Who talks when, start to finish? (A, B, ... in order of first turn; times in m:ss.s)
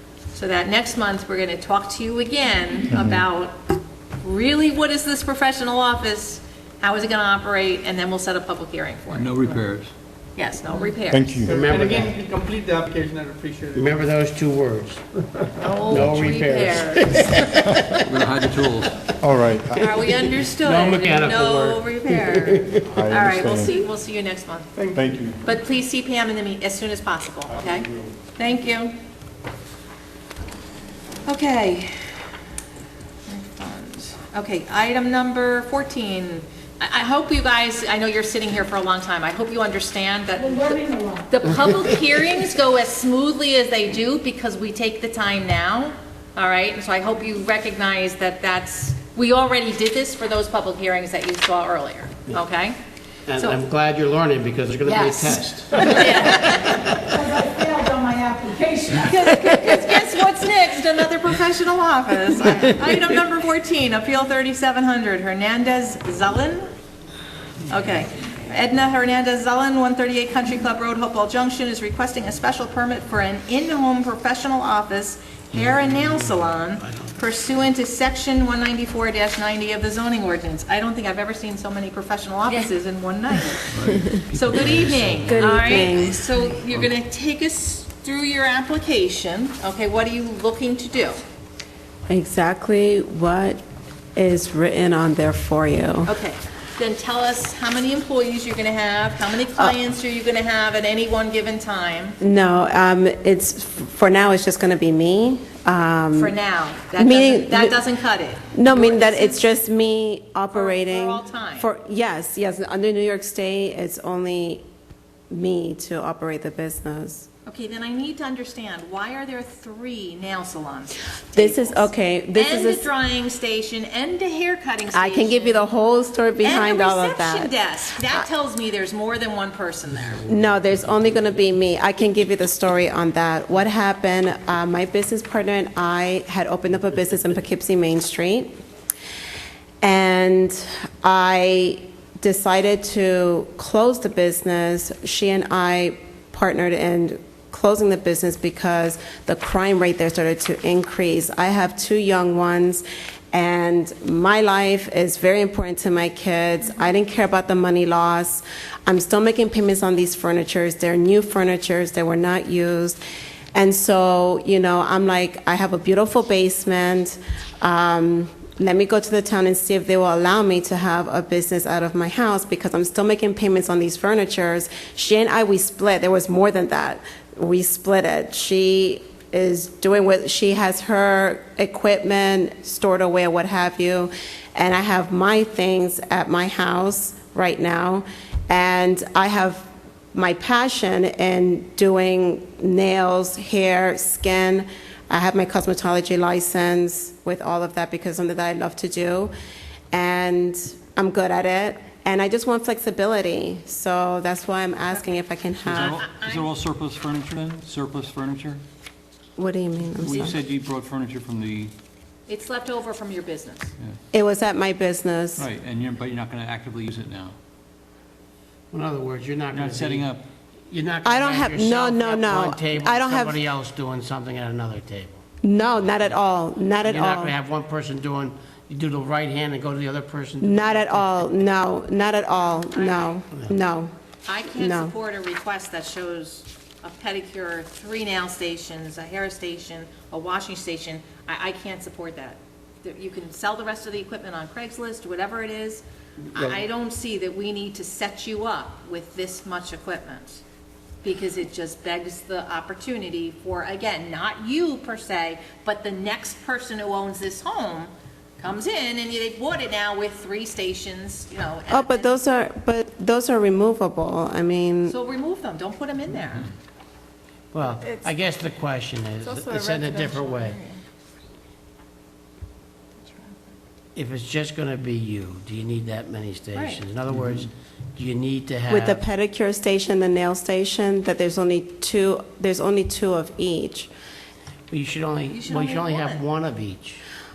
0:00.3-0:03.6 A
0:02.9-0:03.2 B
0:04.2-0:09.6 A
0:09.1-0:09.9 C
0:10.4-0:11.4 A
0:11.1-0:11.6 B
0:11.4-0:12.2 D
0:11.5-0:14.1 E
0:13.7-0:15.0 D
0:15.6-0:17.6 A
0:15.9-0:18.4 D
0:17.5-0:17.9 B
0:18.0-0:19.0 C
0:19.2-0:19.9 B
0:19.8-0:24.7 A
0:20.0-0:22.8 D
0:22.8-0:23.7 B
0:24.8-0:25.2 E
0:24.9-0:25.4 B
0:25.4-0:29.0 A
0:27.5-0:28.1 B
0:31.2-0:32.1 A
0:33.3-0:52.8 A
0:40.7-0:41.2 F
0:53.3-0:57.5 D
0:54.9-0:56.9 A
0:57.0-0:59.0 F
0:58.9-1:06.7 A
1:07.7-1:23.7 A
1:15.5-1:17.2 D
1:23.7-1:25.4 C
1:24.3-1:31.2 A
1:25.2-1:26.2 G
1:25.6-1:25.9 D
1:32.1-1:33.6 G
1:34.2-1:36.1 G
1:36.0-1:42.2 A
1:42.2-1:46.3 G
1:46.1-1:49.4 A
1:47.0-1:47.8 G
1:48.5-1:54.6 G
1:50.5-1:51.7 A
1:55.3-1:57.3 G
1:57.4-2:05.6 A
2:01.3-2:02.9 G
2:04.9-2:07.5 G
2:06.4-2:10.2 A
2:10.0-2:11.3 D
2:10.3-2:18.5 G
2:19.8-2:43.0 G
2:43.5-3:19.3 G
3:19.9-3:26.0 G
3:25.6-3:28.6 C
3:25.8-3:26.5 A
3:29.4-3:30.4 G
3:30.0-3:31.7 C
3:32.3-3:33.7 A
3:34.1-3:35.5 G
3:35.4-3:37.4 C
3:38.7-3:40.1 D
3:39.5-3:40.2 C
3:40.7-3:45.2 D
3:41.0-3:43.4 G
3:45.4-3:47.3 G
3:46.8-3:51.2 D
3:50.4-3:53.9 G
3:52.4-3:53.2 A
3:54.2-4:10.4 A
3:54.5-3:54.9 G
4:11.0-4:22.2 A
4:21.7-4:25.0 G
4:24.9-4:26.5 A
4:27.5-4:30.6 D
4:29.3-4:30.8 A
4:34.0-4:39.0 D
4:36.5-4:36.8 A
4:38.7-4:43.9 G
4:44.7-4:47.0 D
4:45.3-4:46.2 A